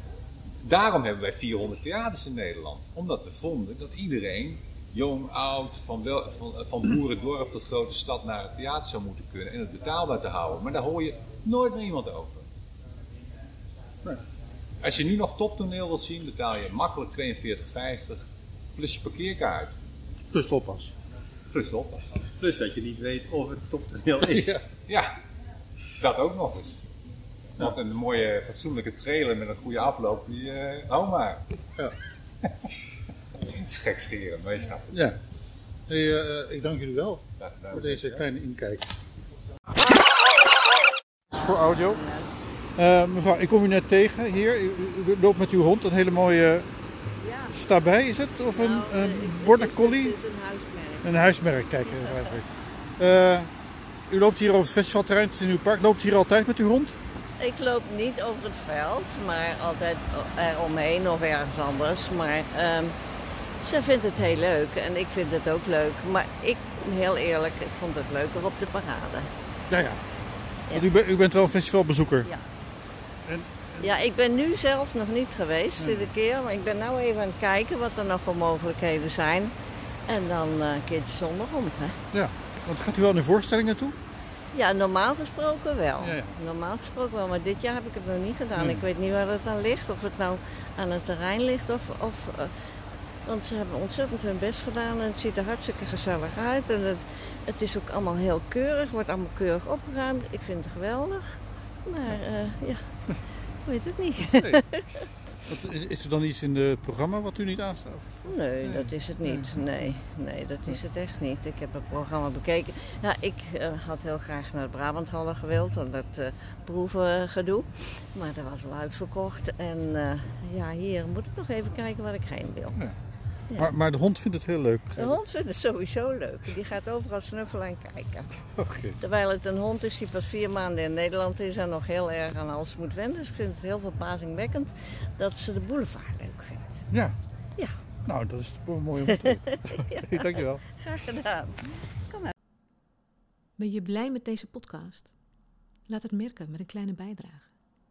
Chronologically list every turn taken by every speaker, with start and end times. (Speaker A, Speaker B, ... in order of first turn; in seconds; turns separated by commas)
Speaker A: 0.6-12.4, Speaker A: 14.8-18.2, Speaker A: 18.8-19.7, Speaker B: 20.3-20.9, Speaker A: 21.5-22.0, Speaker C: 22.4-24.6, Speaker B: 24.3-24.6, Speaker A: 26.0-26.9, Speaker A: 27.6-31.4, Speaker A: 33.5-34.9, Speaker B: 34.9-35.2, Speaker B: 35.9-38.9, Speaker A: 37.4-38.2, Speaker B: 41.3-42.0, Speaker D: 42.0-42.3, Speaker B: 42.8-46.7, Speaker D: 47.2-47.5, Speaker B: 47.5-50.2, Speaker D: 48.6-51.1, Speaker B: 51.0-53.5, Speaker D: 51.8-52.3, Speaker B: 54.1-57.0, Speaker D: 57.4-62.9, Speaker D: 63.6-69.3, Speaker B: 69.7-70.0, Speaker B: 70.7-72.3, Speaker B: 73.3-73.9, Speaker D: 73.8-79.5, Speaker B: 75.8-76.1, Speaker D: 80.1-82.0, Speaker B: 82.1-84.0, Speaker D: 84.5-92.5, Speaker B: 86.0-86.4, Speaker B: 88.6-88.9, Speaker D: 93.3-101.2, Speaker D: 101.9-102.8, Speaker D: 103.7-105.0, Speaker B: 104.4-104.6, Speaker B: 105.5-109.6, Speaker D: 108.3-122.8, Speaker B: 123.6-125.2, Speaker D: 125.0-128.3, Speaker B: 128.5-129.0, Speaker D: 129.0-136.8, Speaker B: 136.9-137.2, Speaker B: 138.1-140.7, Speaker D: 139.9-142.3, Speaker E: 143.6-145.1, Speaker E: 145.9-147.5